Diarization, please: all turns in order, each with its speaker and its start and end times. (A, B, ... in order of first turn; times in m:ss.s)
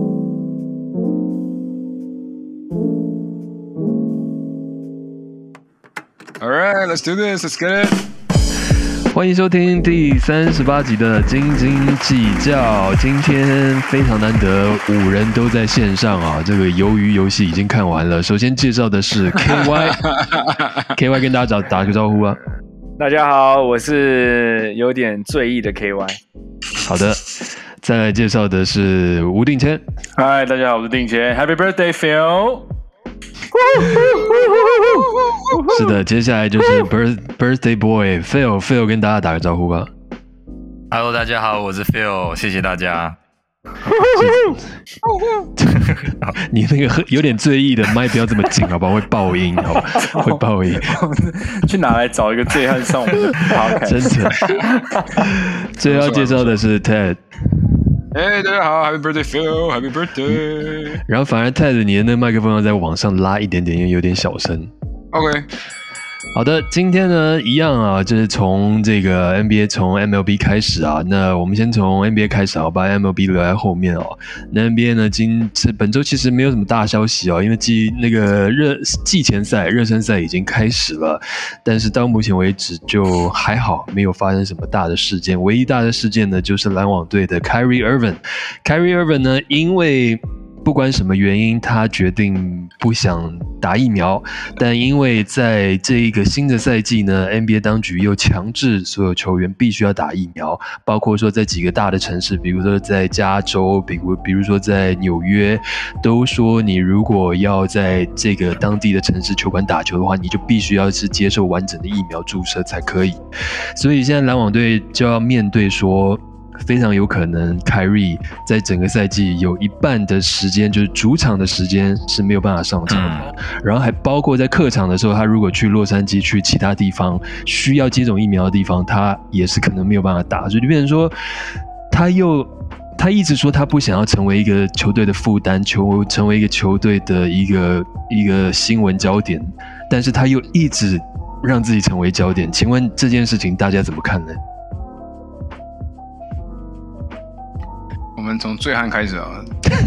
0:06.4-0:08.0 A
0:09.1-0:20.2 B
0:20.0-0:20.6 A
0:20.9-0:22.4 B
0:23.0-0:26.2 C
0:26.8-0:29.8 B
0:30.2-0:32.7 D
0:33.5-0:35.1 C
0:35.7-0:39.9 B
0:40.9-0:43.2 E
0:43.9-0:44.5 C
0:44.1-0:44.7 B
0:45.6-0:51.0 B
0:46.0-0:46.3 E
0:50.1-0:54.3 D
0:53.8-0:54.5 B
0:54.4-0:54.7 A
0:55.1-0:58.0 B
0:55.8-0:56.6 A
0:58.1-1:01.0 A
1:01.1-1:04.7 B
1:05.1-1:05.5 A
1:06.3-2:24.4 B
2:02.9-2:03.3 E
2:28.2-2:29.7 A